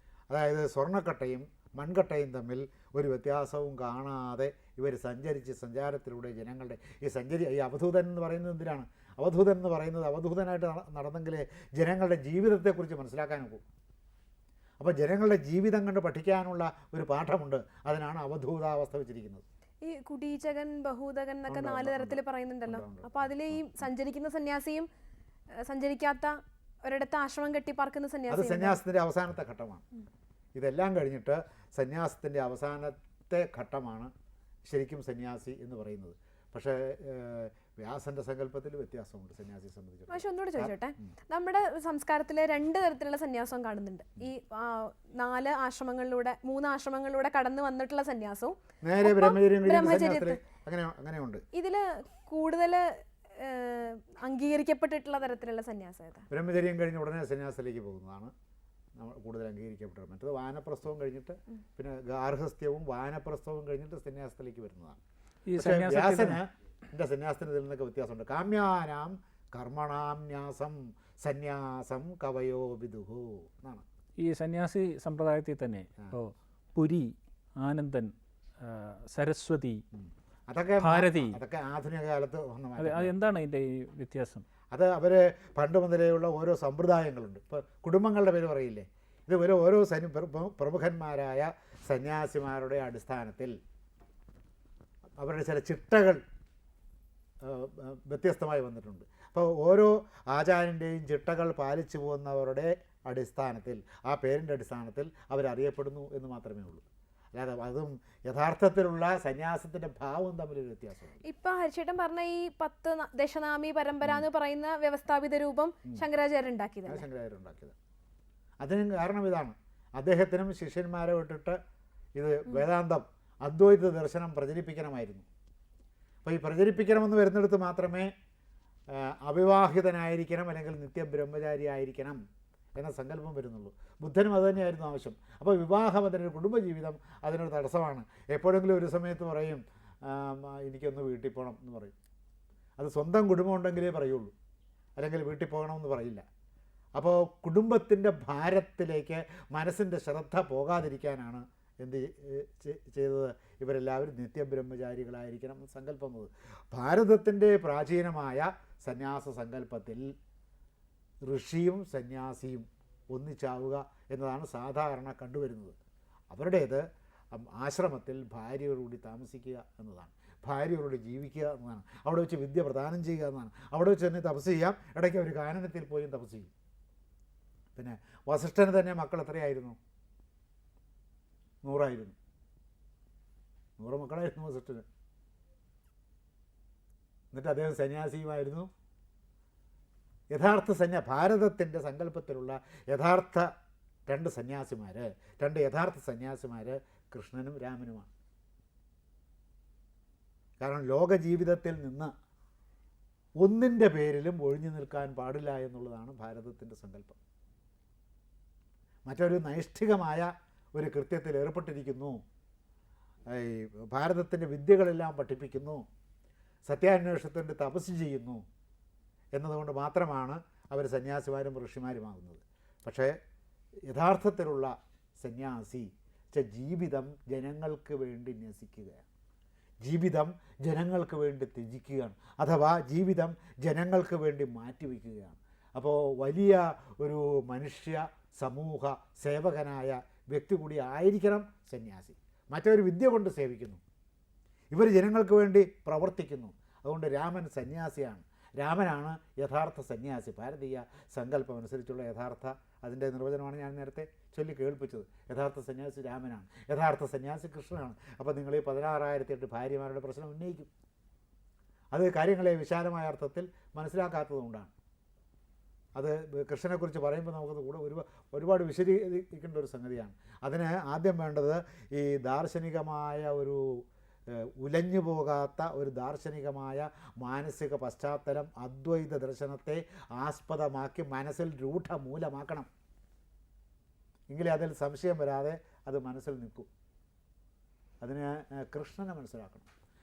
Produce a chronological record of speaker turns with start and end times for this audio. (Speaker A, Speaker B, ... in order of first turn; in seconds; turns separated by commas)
Speaker A: 0.3-13.6, Speaker A: 14.8-19.4, Speaker B: 19.8-24.9, Speaker A: 21.5-23.8, Speaker B: 25.6-28.8, Speaker A: 28.3-29.9, Speaker A: 30.6-34.1, Speaker A: 34.7-41.1, Speaker B: 40.1-50.4, Speaker A: 48.8-51.4, Speaker B: 51.5-56.3, Speaker A: 56.3-58.3, Speaker A: 59.0-65.0, Speaker C: 65.5-66.4, Speaker A: 65.6-73.8, Speaker C: 74.2-79.8, Speaker A: 80.0-83.1, Speaker C: 80.8-81.4, Speaker C: 82.8-84.5, Speaker A: 84.7-93.6, Speaker A: 95.2-96.2, Speaker A: 97.4-106.8, Speaker A: 107.3-111.2, Speaker B: 111.2-117.0, Speaker A: 116.9-117.8, Speaker A: 118.6-121.6, Speaker A: 122.2-125.3, Speaker A: 126.2-128.1, Speaker A: 128.9-132.2, Speaker A: 132.8-141.9, Speaker A: 142.8-144.3, Speaker A: 145.0-146.2, Speaker A: 147.0-160.1, Speaker A: 161.3-165.8, Speaker A: 166.3-176.5, Speaker A: 177.8-179.8, Speaker A: 181.6-182.2, Speaker A: 183.8-184.8, Speaker A: 187.3-188.7, Speaker A: 190.3-193.5, Speaker A: 194.1-198.1, Speaker A: 200.6-202.1, Speaker A: 203.4-207.2, Speaker A: 209.1-212.2, Speaker A: 213.3-215.8, Speaker A: 216.7-218.4, Speaker A: 219.4-223.2, Speaker A: 223.9-229.0, Speaker A: 229.8-243.8, Speaker A: 244.7-260.7, Speaker A: 261.9-264.7, Speaker A: 266.0-282.7, Speaker A: 284.3-286.7, Speaker A: 288.0-289.7